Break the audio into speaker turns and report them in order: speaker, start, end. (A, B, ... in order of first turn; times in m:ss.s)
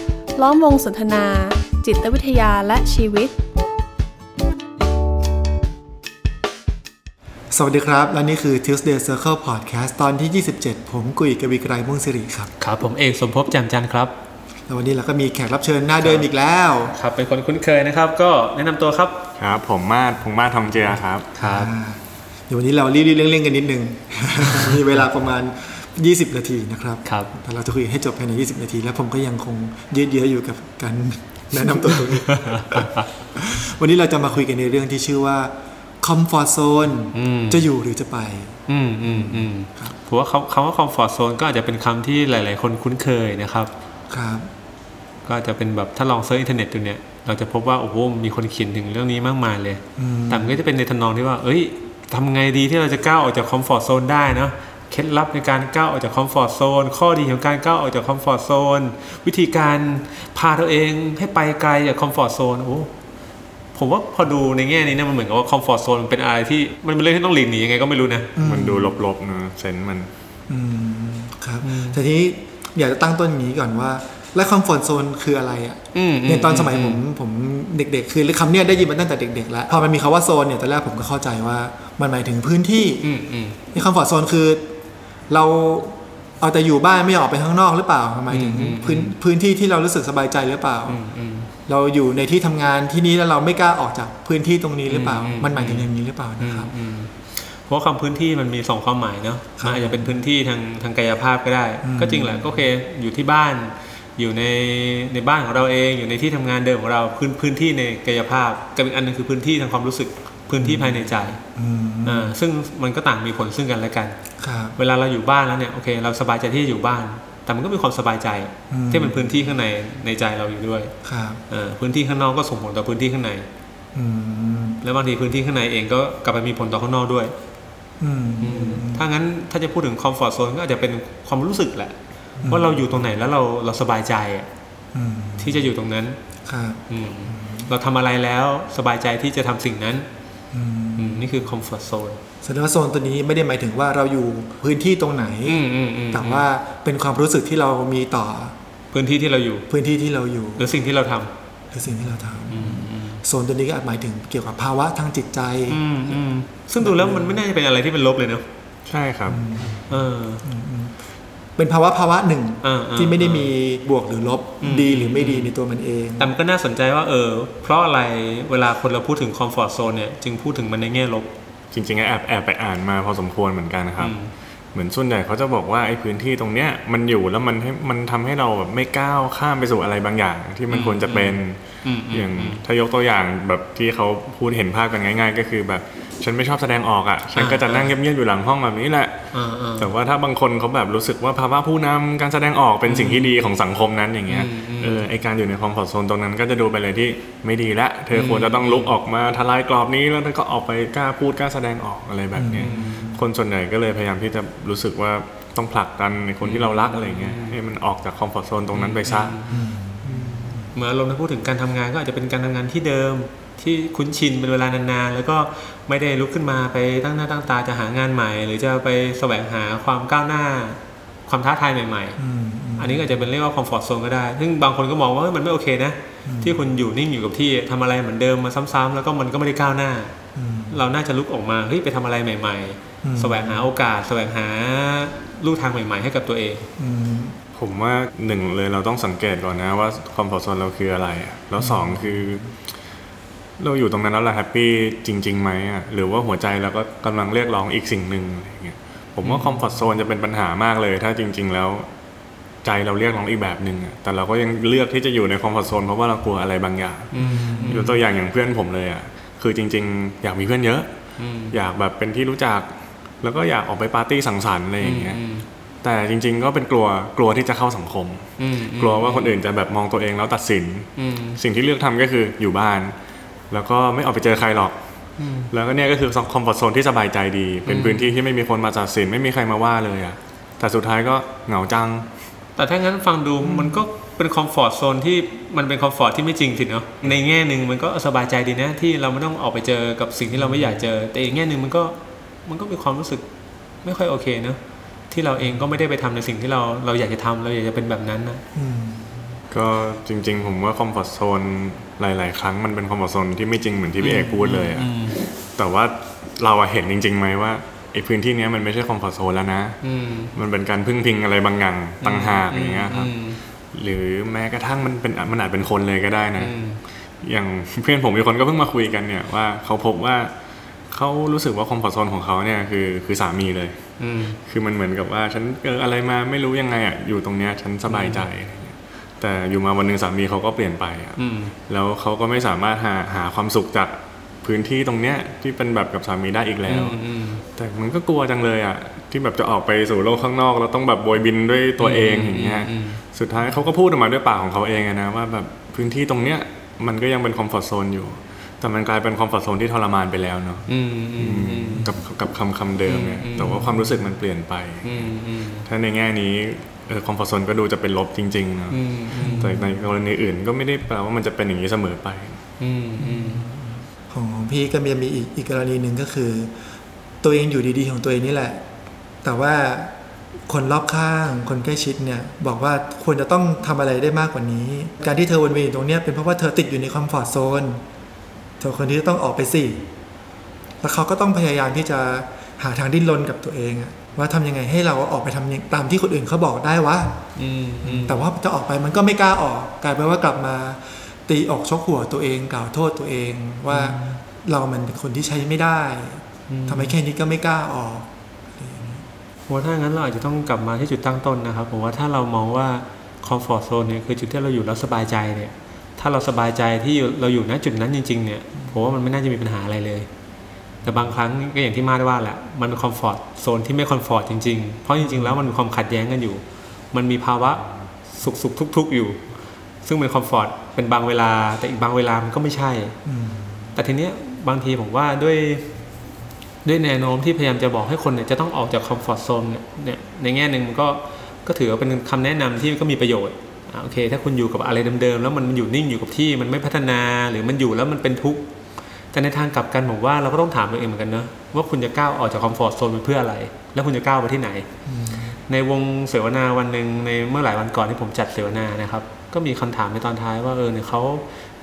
0:00.4-0:03.4 A
0:07.5-0:12.5 B
0:12.6-0:14.2 C
0:14.7-0:16.9 B
0:16.0-0:16.3 C
0:16.9-0:19.3 C
0:19.4-0:21.3 D
0:21.4-0:21.7 C
0:21.4-0:40.0 B
0:27.0-0:27.3 C
0:31.9-0:33.0 C
0:37.1-0:37.7 C
0:38.7-0:43.7 C
0:44.1-0:44.5 B
0:45.2-1:02.9 C
0:50.0-0:50.6 B
1:03.7-1:08.3 C
1:08.4-1:09.0 B
1:08.4-1:10.1 D
1:10.5-1:23.1 B
1:11.6-1:12.0 C
1:15.9-1:17.0 C
1:23.0-1:23.6 C
1:23.7-1:24.8 B
1:25.3-1:31.0 B
1:28.3-1:29.2 C
1:30.9-1:31.5 C
1:31.7-1:36.7 B
1:34.9-1:35.9 C
1:36.4-1:51.4 C
1:39.6-1:40.2 B
1:41.8-1:42.5 B
1:50.6-1:52.4 B
1:52.0-1:54.2 C
1:54.4-1:54.8 B
1:54.8-2:00.9 C
1:58.7-1:59.4 B
2:01.0-2:01.4 B
2:01.5-2:03.5 C
2:04.0-2:04.8 B
2:04.8-2:07.4 C
2:08.0-2:09.1 B
2:08.4-2:14.5 C
2:12.4-2:13.0 B
2:14.9-2:15.7 B
2:15.4-2:16.2 C
2:16.5-2:17.7 B
2:16.9-2:20.1 C
2:20.5-2:21.4 B
2:21.0-2:22.2 C
2:22.4-2:28.5 B
2:25.4-2:26.5 C
2:28.9-2:29.7 C
2:29.7-2:30.8 B
2:30.6-2:31.3 C
2:31.7-2:36.2 B
2:32.5-2:33.2 C
2:35.7-2:38.5 C
2:36.8-2:37.4 B
2:38.9-2:39.5 D
2:39.3-2:41.0 B
2:39.9-2:40.4 C
2:41.6-2:46.4 B
2:42.6-2:43.5 C
2:44.6-2:45.5 C
2:46.2-2:51.3 C
2:51.7-2:54.1 D
2:54.0-2:54.3 C
2:54.7-3:09.2 D
3:00.7-3:02.6 C
3:07.4-3:08.0 C
3:09.3-3:09.9 C
3:09.8-3:29.4 D
3:12.8-3:13.4 C
3:14.3-3:15.1 C
3:18.1-3:19.0 C
3:22.4-3:23.0 B
3:22.6-3:23.2 C
3:26.4-3:27.6 C
3:28.7-3:29.6 C
3:29.5-3:30.7 B
3:30.2-3:42.2 C
3:42.2-3:43.2 B
3:42.8-3:50.1 C
3:46.2-3:46.7 B
3:50.4-3:50.9 B
3:50.7-3:56.7 C
3:53.0-3:53.7 B
3:56.8-3:57.4 B
3:57.6-4:02.5 D
4:01.6-4:02.4 B
4:03.6-4:11.9 D
4:09.2-4:09.6 C
4:12.6-4:17.1 D
4:17.1-4:18.0 C
4:17.2-4:18.0 B
4:17.7-4:20.9 D
4:21.2-4:21.6 C
4:21.5-4:25.2 D
4:24.8-4:25.5 C
4:25.8-4:32.9 D
4:28.4-4:29.4 C
4:31.0-4:31.4 C
4:33.5-4:34.8 D
4:35.2-4:35.5 C
4:35.5-4:42.1 D
4:37.6-4:38.2 C
4:42.6-4:53.3 C
4:43.4-4:43.8 B
4:50.4-4:50.7 B
4:53.8-4:58.4 C
4:55.4-4:55.7 B
4:58.6-4:59.1 B
4:59.5-5:04.9 D
5:04.0-5:05.3 C
5:05.6-5:09.8 D
5:09.8-5:10.3 C
5:10.4-5:13.1 D
5:12.0-5:13.4 C
5:13.7-5:16.5 D
5:16.4-5:16.8 C
5:17.2-5:20.3 D
5:20.9-5:23.8 D
5:24.0-5:24.4 C
5:24.5-5:37.0 D
5:27.9-5:28.2 C
5:31.2-5:31.6 C
5:36.7-5:37.4 C
5:37.6-5:50.7 D
5:41.8-5:43.0 C
5:50.7-5:51.9 C
5:51.2-5:55.1 D
5:52.8-5:53.7 C
5:53.4-5:54.1 B
5:54.8-5:55.7 C
5:55.6-6:02.4 D
5:58.7-5:59.6 C
5:59.2-5:59.7 B
6:02.6-6:03.5 C
6:03.0-6:06.5 B
6:07.2-6:08.6 B
6:09.2-6:09.9 B
6:10.5-6:17.8 B
6:18.6-6:19.9 B
6:20.8-6:27.2 B
6:27.4-6:28.3 C
6:27.8-6:39.0 B
6:33.7-6:34.2 C
6:36.5-6:37.0 C
6:39.5-6:50.1 C
6:48.6-6:48.8 B
6:50.8-6:59.2 C
6:55.0-6:55.4 B
6:59.8-7:03.0 C
7:03.0-7:03.8 B
7:03.8-7:05.7 C
7:06.6-7:18.5 C
7:19.1-7:24.7 C
7:24.9-7:25.4 B
7:25.5-7:31.3 C